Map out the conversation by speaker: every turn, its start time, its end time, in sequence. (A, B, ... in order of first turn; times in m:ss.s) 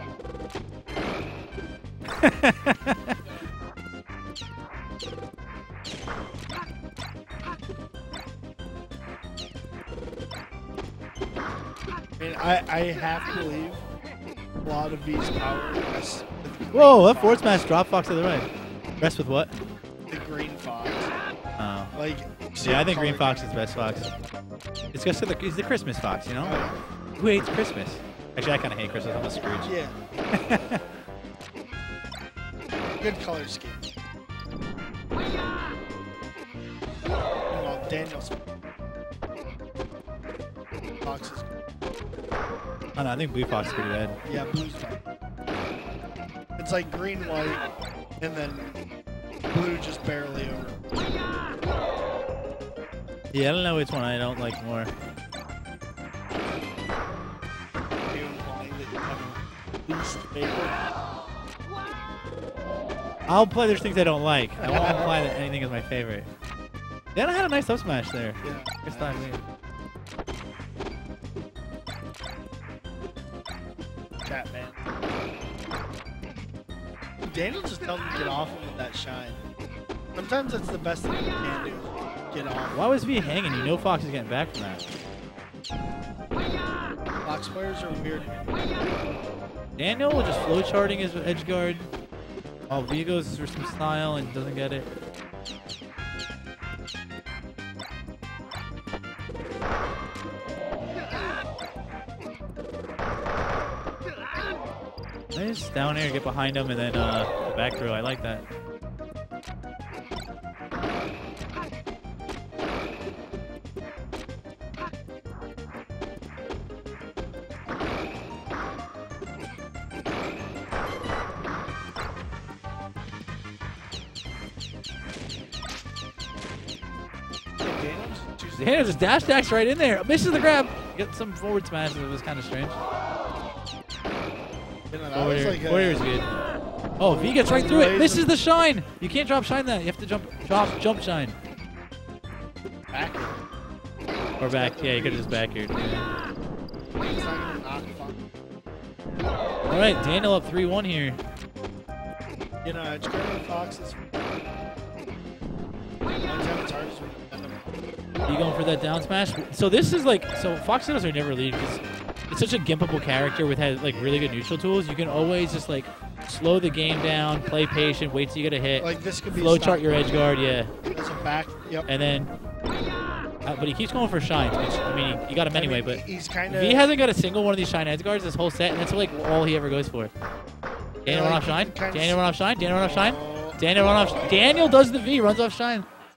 0:02.2-0:03.2 A
0:12.2-0:13.8 B
0:14.6-0:17.7 B
0:16.7-0:18.5 A
0:19.0-0:19.6 A
0:20.1-0:21.1 B
0:21.6-0:21.9 A
0:21.9-0:24.1 B
0:22.6-0:24.1 A
0:24.9-0:26.6 A
0:26.4-0:26.8 B
0:27.2-0:29.8 A
0:29.3-0:30.0 B
0:30.3-0:30.8 A
0:33.0-0:33.8 B
0:37.5-0:38.5 B
0:41.0-0:41.6 B
0:43.0-0:44.2 A
0:44.2-0:45.0 B
0:46.6-0:47.6 B
0:48.2-0:48.8 B
0:49.5-0:50.8 B
0:53.3-0:54.9 A
0:58.0-1:00.7 B
1:03.3-1:06.3 A
1:04.6-1:05.2 B
1:07.1-1:09.4 A
1:08.4-1:09.3 B
1:14.2-1:14.8 B
1:17.2-1:19.4 B
1:20.1-1:22.9 B
1:22.7-1:24.8 A
1:27.2-1:28.4 B
1:29.8-1:31.9 A
1:32.7-1:34.9 A
1:45.3-1:48.4 A
2:07.6-2:09.5 B
2:08.6-2:12.8 A
2:14.9-2:16.1 B
2:15.1-2:16.3 A
2:17.0-2:21.4 A
2:17.0-2:18.3 B
2:22.9-2:23.4 B
2:24.4-2:26.1 A
2:24.4-2:25.4 B
2:27.0-2:28.3 B
2:29.6-2:31.2 A
2:32.6-2:34.0 B
2:36.2-2:37.8 B
2:38.3-2:50.7 A
2:43.9-2:44.4 B
2:48.8-2:50.3 B
2:50.9-2:51.9 B
2:51.9-2:52.3 A
2:53.4-3:00.1 A
2:55.5-2:56.9 B
3:01.0-3:05.8 A
3:01.0-3:02.2 B
3:02.8-3:03.6 B
3:04.2-3:04.7 B